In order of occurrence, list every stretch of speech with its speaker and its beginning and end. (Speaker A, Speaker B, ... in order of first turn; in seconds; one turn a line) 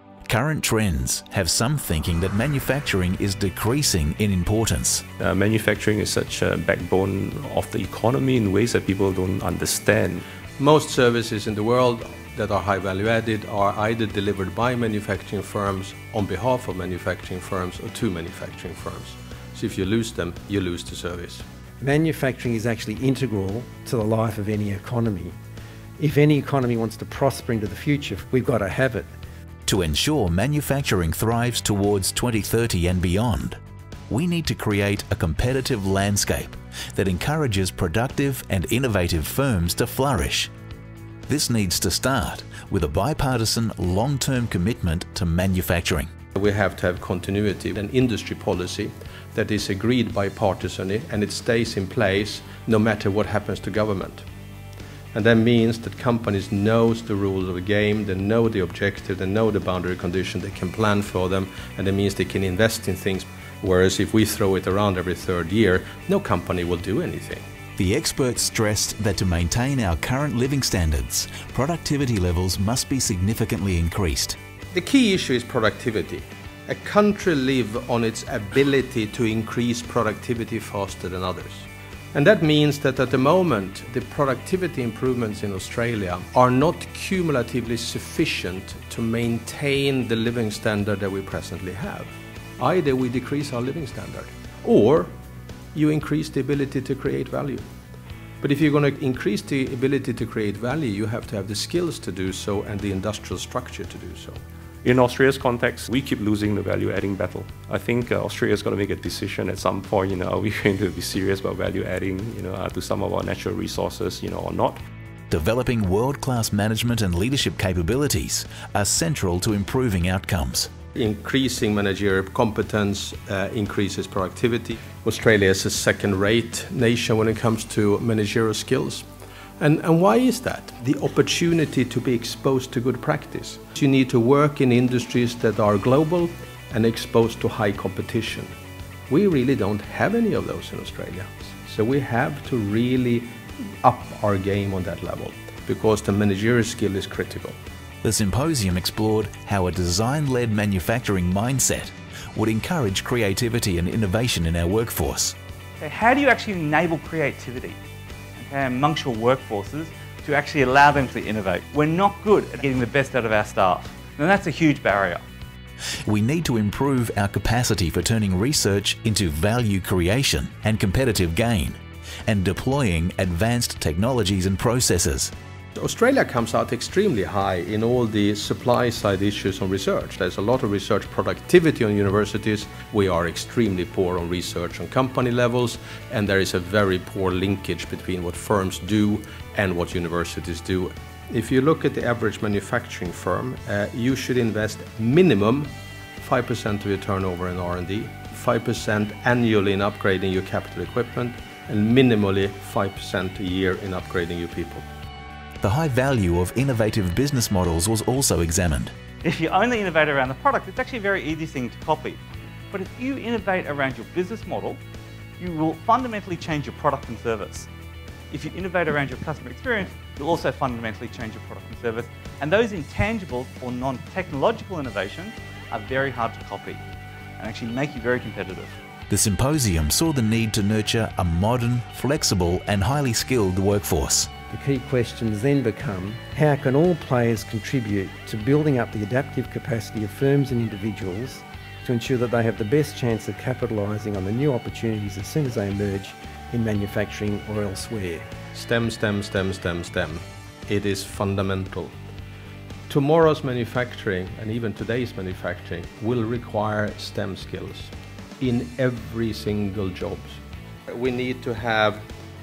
Speaker A: 0.3-5.0
Speaker B: 5.2-10.2
Speaker C: 10.6-21.4
Speaker D: 21.8-25.3
Speaker D: 26.0-29.1
Speaker A: 29.7-40.5
Speaker A: 41.3-46.1
Speaker C: 46.3-54.2
Speaker C: 55.1-67.4
Speaker A: 67.8-74.4
Speaker C: 74.7-95.1
Speaker C: 95.7-97.7
Speaker C: 98.4-104.4
Speaker B: 104.8-114.8
Speaker A: 115.3-120.7
Speaker C: 121.0-129.0
Speaker C: 129.6-138.5
Speaker C: 139.1-143.3
Speaker C: 143.8-147.6
Speaker A: 148.0-155.3
Speaker E: 155.8-157.8
Speaker E: 158.4-165.2
Speaker A: 166.0-175.3
Speaker C: 175.8-204.8
Speaker A: 205.6-208.9
Speaker E: 209.2-214.8
Speaker E: 215.4-217.7
Speaker E: 218.3-226.8
Speaker E: 227.4-228.8
Speaker A: 229.1-234.3
Speaker D: 234.5-248.3
Speaker C: 248.5-251.9
Speaker C: 252.9-262.1